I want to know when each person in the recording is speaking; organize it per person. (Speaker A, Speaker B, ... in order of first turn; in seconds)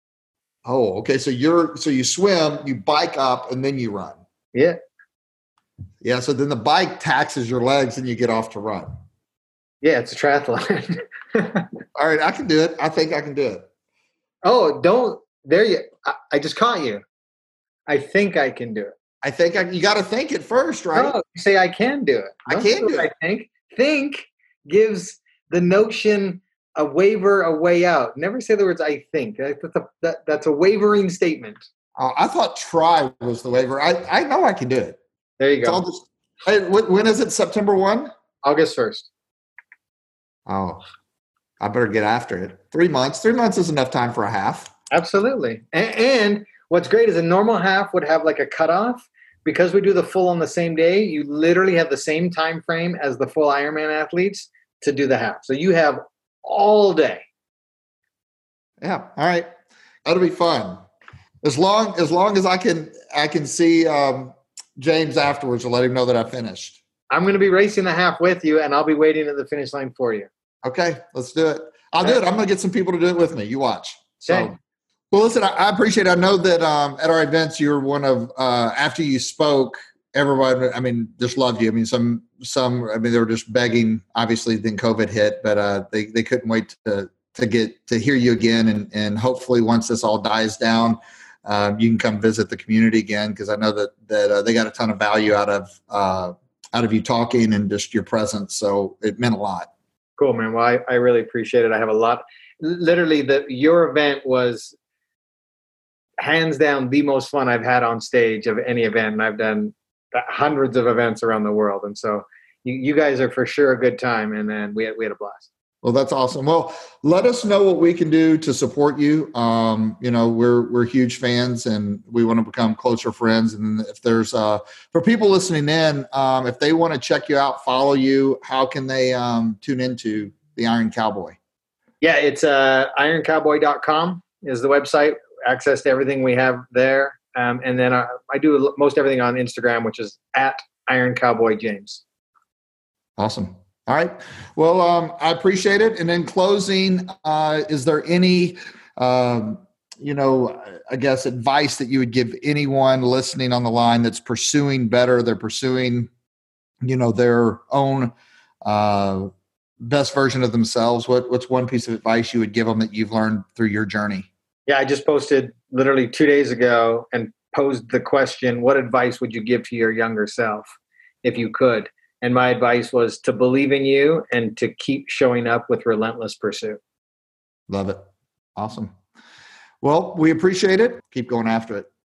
Speaker A: 0.7-4.2, 6.0-8.9, 11.9-13.7, 19.2-21.1, 22.5-23.1, 32.0-35.0, 35.6-38.1, 40.5-40.8, 41.6-44.7, 58.8-59.5, 60.1-60.8, 61.4-66.8, 70.6-74.6, 75.1-99.7, 115.8-131.4, 143.2-156.1, 156.8-158.1, 158.6-159.3, 159.8-164.3, 177.7-178.0, 178.6-178.9, 179.8-181.9
Speaker B: 4.5-4.8, 9.8-11.7, 14.4-17.0, 17.9-18.9, 20.9-31.6, 35.4-35.8, 38.4-39.1, 44.9-57.2, 67.1-70.3, 74.3-74.5, 100.2-104.8, 106.2-115.5, 132.0-142.0, 164.7-170.7, 171.2-176.8